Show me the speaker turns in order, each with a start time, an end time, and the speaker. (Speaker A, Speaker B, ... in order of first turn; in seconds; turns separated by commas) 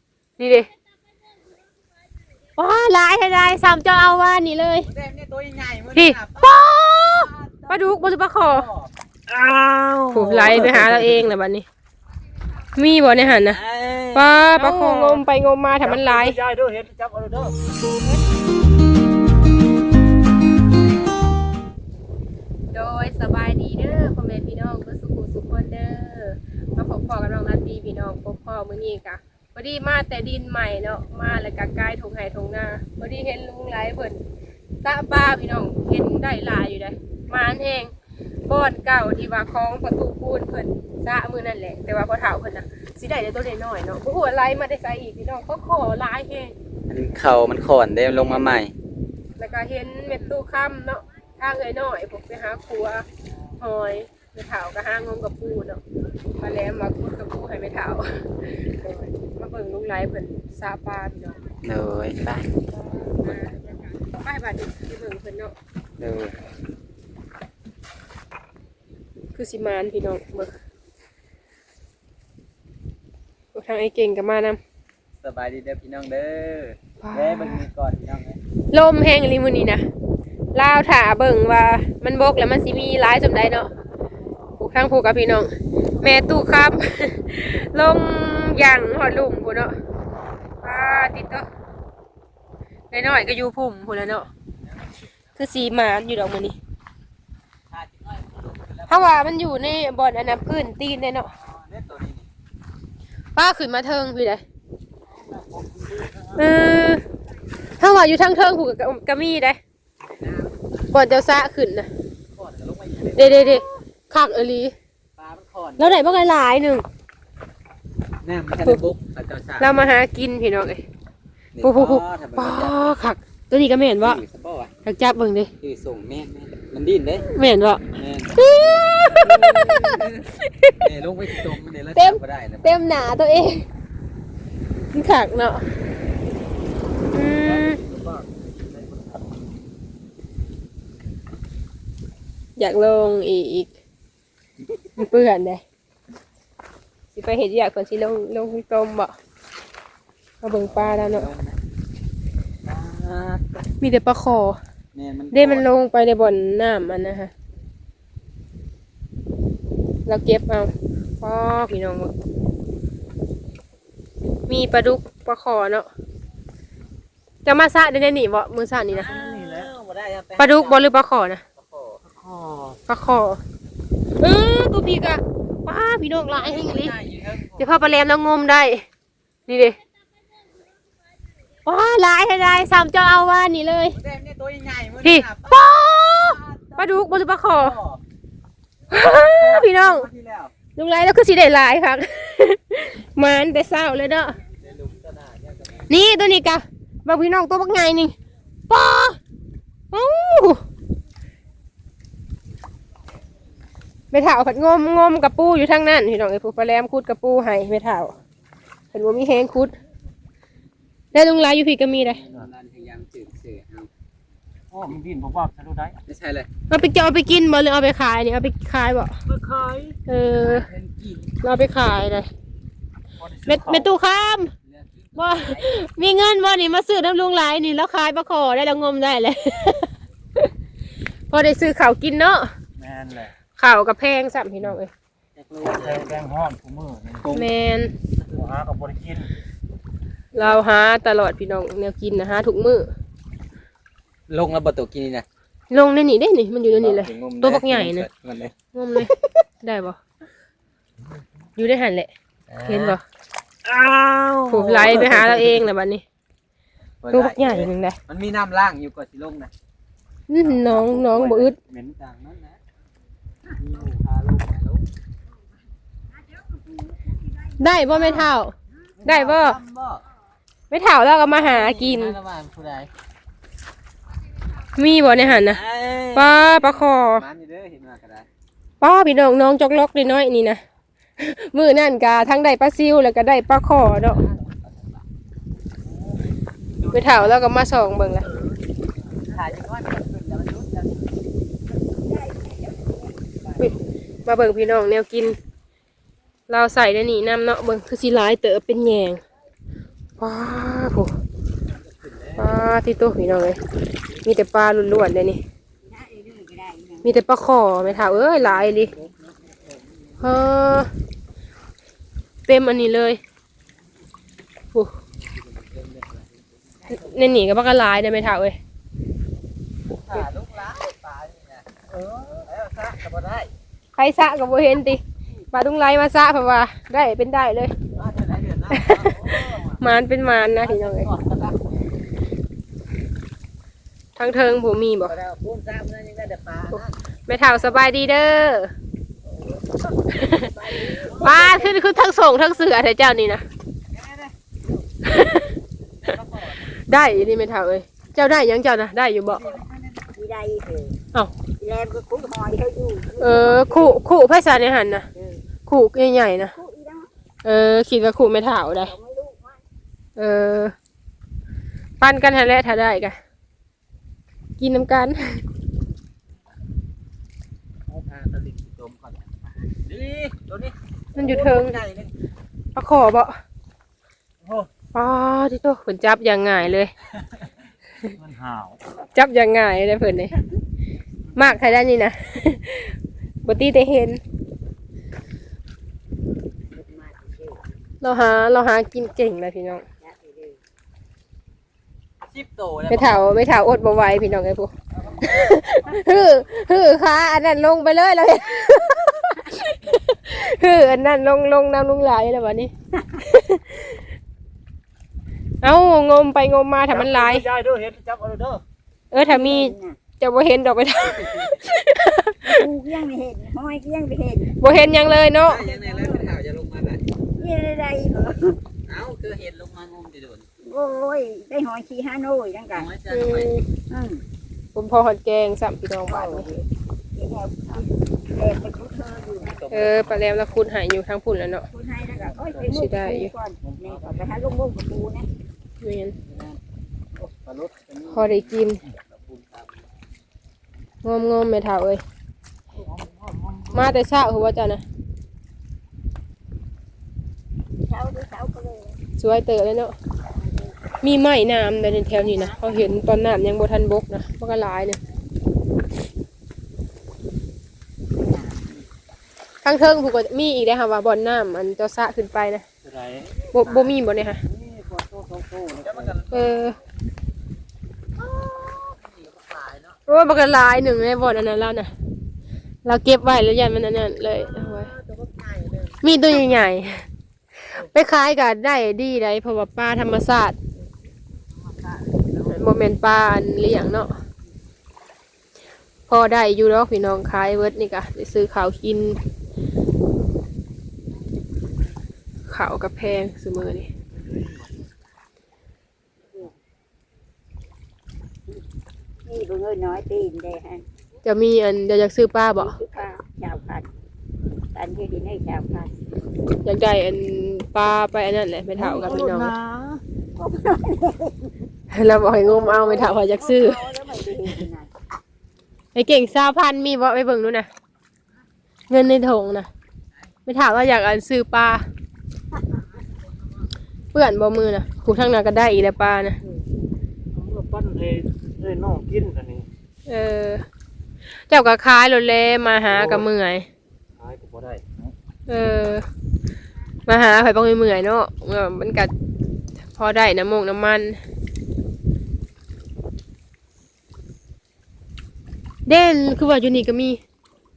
Speaker A: 0.4-0.7, Speaker A: 2.6-4.9, Speaker B: 4.8-7.9, Speaker A: 5.9-8.7, Speaker B: 8.5-8.9, Speaker C: 9.3-10.0, Speaker A: 10.1-11.7, Speaker B: 10.1-11.3, Speaker A: 12.7-13.6, Speaker B: 13.4-15.1, Speaker A: 14.1-16.4, Speaker C: 15.8-17.6, Speaker A: 22.7-34.2, Speaker A: 34.8-37.9, Speaker A: 38.5-46.5, Speaker B: 46.9-48.7, Speaker A: 49.4-53.0, Speaker A: 53.6-55.8, Speaker A: 56.4-61.4, Speaker B: 61.6-62.5, Speaker A: 62.8-65.5, Speaker B: 66.0-66.3, Speaker A: 69.3-70.5, Speaker A: 73.5-74.6, Speaker B: 75.2-78.4, Speaker A: 77.0-77.6, Speaker A: 78.7-79.8, Speaker A: 80.5-83.7, Speaker A: 84.6-89.7, Speaker A: 90.6-91.5, Speaker A: 92.9-94.3, Speaker A: 95.3-96.6, Speaker B: 97.7-99.3, Speaker A: 98.9-101.3, Speaker B: 101.4-102.3, Speaker A: 103.3-104.4, Speaker B: 105.2-106.5, Speaker A: 106.3-107.0, Speaker A: 107.8-109.6, Speaker B: 110.1-110.7, Speaker A: 110.9-111.9, Speaker B: 112.3-113.6, Speaker A: 113.1-114.7, Speaker B: 115.2-116.2, Speaker A: 115.8-116.8, Speaker B: 118.2-119.8, Speaker A: 119.6-120.8, Speaker B: 121.5-122.8, Speaker A: 121.6-124.2, Speaker B: 124.0-124.7, Speaker A: 124.8-125.5, Speaker B: 125.6-127.3, Speaker A: 127.3-127.8, Speaker B: 127.9-128.3, Speaker A: 128.4-130.9, Speaker B: 129.1-130.3, Speaker B: 130.8-132.7, Speaker A: 131.9-133.7, Speaker A: 134.9-135.6, Speaker A: 137.1-137.8, Speaker B: 137.5-139.2, Speaker A: 142.6-143.7, Speaker A: 145.0-145.6, Speaker A: 147.1-149.1, Speaker A: 150.4-151.3, Speaker B: 150.7-151.6, Speaker B: 152.7-153.5, Speaker A: 153.8-154.6, Speaker B: 154.9-155.7, Speaker A: 155.3-157.3, Speaker A: 160.1-162.1, Speaker A: 164.5-165.9, Speaker A: 167.4-169.1, Speaker B: 168.9-170.9, Speaker C: 169.1-169.7, Speaker A: 170.4-171.4, Speaker B: 171.6-172.0, Speaker C: 172.1-172.8, Speaker A: 172.9-173.4, Speaker A: 174.2-176.9, Speaker B: 176.3-177.7, Speaker A: 177.6-178.8, Speaker A: 179.5-179.8, Speaker A: 181.7-183.9, Speaker B: 183.9-188.0, Speaker A: 185.0-187.8, Speaker A: 188.9-190.1, Speaker B: 189.3-190.5, Speaker A: 190.8-194.3, Speaker B: 194.6-195.9, Speaker A: 195.9-198.1, Speaker A: 198.7-199.2, Speaker A: 199.9-200.6, Speaker A: 204.1-208.1, Speaker A: 208.9-209.7, Speaker A: 211.1-212.2, Speaker B: 212.0-213.9, Speaker C: 214.7-216.0, Speaker B: 216.0-216.5, Speaker A: 216.7-219.2, Speaker B: 219.3-221.3, Speaker A: 220.1-220.7, Speaker A: 221.4-222.3, Speaker C: 223.2-223.9, Speaker A: 223.4-224.5, Speaker B: 224.7-225.8, Speaker A: 225.2-229.9, Speaker A: 231.3-232.5, Speaker C: 232.8-233.3, Speaker A: 233.6-234.9, Speaker B: 235.3-236.2, Speaker C: 235.6-237.2, Speaker B: 237.2-237.5, Speaker A: 237.3-237.9, Speaker C: 238.2-239.3, Speaker A: 240.3-242.9, Speaker B: 244.3-245.2, Speaker A: 245.7-248.1, Speaker B: 246.7-249.1, Speaker A: 248.7-250.0, Speaker A: 251.6-252.1, Speaker B: 252.5-253.0, Speaker A: 252.6-253.0, Speaker B: 253.6-255.7, Speaker A: 254.5-256.0, Speaker B: 257.0-259.5, Speaker A: 257.1-258.0, Speaker A: 260.3-261.6, Speaker B: 260.4-262.6, Speaker B: 263.6-264.9, Speaker D: 266.3-267.5, Speaker A: 267.6-269.6, Speaker B: 269.0-270.1, Speaker A: 270.7-272.2, Speaker B: 271.2-272.9, Speaker A: 274.8-275.6, Speaker B: 275.1-278.3, Speaker A: 276.1-277.2, Speaker A: 278.8-280.6, Speaker A: 281.2-284.2, Speaker B: 284.2-285.0, Speaker B: 286.8-287.4, Speaker A: 286.9-288.3, Speaker B: 289.2-291.1, Speaker D: 292.0-293.1, Speaker A: 294.2-295.4, Speaker A: 296.5-299.2, Speaker A: 300.2-301.1, Speaker B: 301.6-302.6, Speaker A: 302.3-303.6, Speaker A: 304.2-305.4, Speaker D: 305.8-307.1, Speaker A: 307.0-308.9, Speaker B: 307.9-310.3, Speaker A: 310.2-310.9, Speaker A: 312.5-313.2, Speaker B: 315.2-316.4, Speaker A: 316.9-318.6, Speaker B: 319.9-323.5, Speaker A: 323.9-325.0, Speaker A: 325.5-327.7, Speaker B: 327.9-329.8, Speaker A: 328.7-331.1, Speaker B: 330.6-331.8, Speaker A: 334.1-335.1, Speaker B: 335.1-336.9, Speaker A: 336.7-338.7, Speaker A: 340.1-340.5, Speaker D: 340.6-341.7, Speaker B: 340.7-341.1, Speaker A: 341.1-343.4, Speaker B: 343.9-344.3, Speaker A: 345.0-345.5, Speaker B: 346.0-346.8, Speaker A: 346.9-349.5, Speaker D: 350.0-351.0, Speaker D: 351.6-354.0, Speaker A: 353.2-355.1, Speaker D: 355.1-355.4, Speaker A: 355.6-356.5, Speaker D: 356.4-357.1, Speaker A: 357.4-358.9, Speaker D: 358.7-359.6, Speaker A: 360.1-360.7, Speaker A: 362.0-363.2, Speaker A: 364.6-365.4, Speaker B: 367.9-372.1, Speaker A: 371.1-371.8, Speaker A: 372.7-373.4, Speaker A: 374.9-376.9, Speaker C: 378.1-378.8, Speaker A: 379.1-380.4, Speaker A: 381.3-384.2, Speaker D: 386.7-387.7, Speaker A: 388.0-389.8, Speaker D: 390.0-390.6, Speaker B: 392.2-393.4, Speaker A: 392.9-394.7, Speaker B: 395.1-395.6, Speaker A: 395.2-402.7, Speaker A: 403.2-404.0, Speaker A: 405.6-407.5, Speaker C: 406.9-408.6, Speaker A: 409.1-412.6, Speaker D: 409.2-410.0, Speaker D: 412.4-414.6, Speaker A: 414.6-415.6, Speaker B: 415.4-417.0, Speaker D: 415.5-416.3, Speaker D: 417.4-418.6, Speaker B: 418.9-420.4, Speaker D: 420.6-422.9, Speaker B: 422.7-423.5, Speaker A: 423.1-423.6, Speaker D: 423.9-424.2, Speaker A: 424.7-426.5, Speaker D: 426.1-429.8, Speaker B: 429.3-430.3, Speaker A: 429.7-431.7, Speaker D: 431.7-435.3, Speaker B: 432.2-432.6, Speaker A: 432.6-433.3, Speaker B: 433.6-434.5, Speaker A: 435.8-436.1, Speaker B: 436.2-436.6, Speaker B: 437.1-439.7, Speaker A: 438.1-438.8, Speaker A: 441.0-442.0, Speaker C: 443.5-443.8, Speaker A: 443.7-444.8, Speaker D: 447.9-449.0, Speaker A: 449.2-449.9, Speaker D: 450.4-450.7, Speaker A: 451.0-455.0, Speaker D: 452.1-452.8, Speaker D: 458.2-458.9, Speaker A: 459.6-462.6, Speaker C: 462.9-463.4, Speaker A: 463.5-464.4, Speaker B: 463.6-463.9, Speaker C: 464.5-466.1, Speaker B: 465.8-466.5, Speaker A: 466.3-466.8, Speaker B: 468.2-470.0, Speaker A: 470.1-471.9, Speaker A: 472.8-474.9, Speaker B: 474.3-476.1, Speaker A: 476.0-477.0, Speaker A: 477.8-480.6, Speaker B: 481.7-482.7, Speaker A: 482.4-484.1, Speaker A: 486.1-489.2, Speaker A: 492.5-493.9, Speaker C: 494.2-494.7, Speaker D: 499.2-500.8, Speaker A: 501.2-502.8, Speaker D: 502.6-503.9, Speaker D: 504.7-505.9, Speaker A: 506.6-509.5, Speaker B: 508.8-509.5, Speaker C: 508.9-510.0, Speaker D: 510.4-511.7, Speaker A: 511.9-513.8, Speaker D: 512.4-514.9, Speaker A: 515.9-517.7, Speaker A: 518.9-519.7, Speaker A: 520.5-521.8, Speaker A: 524.1-526.4, Speaker C: 527.3-529.7, Speaker A: 530.1-530.6, Speaker A: 531.5-533.7, Speaker C: 532.9-533.2, Speaker C: 534.2-535.1, Speaker A: 535.5-536.0, Speaker A: 537.1-539.1, Speaker A: 539.9-541.2, Speaker A: 545.9-547.2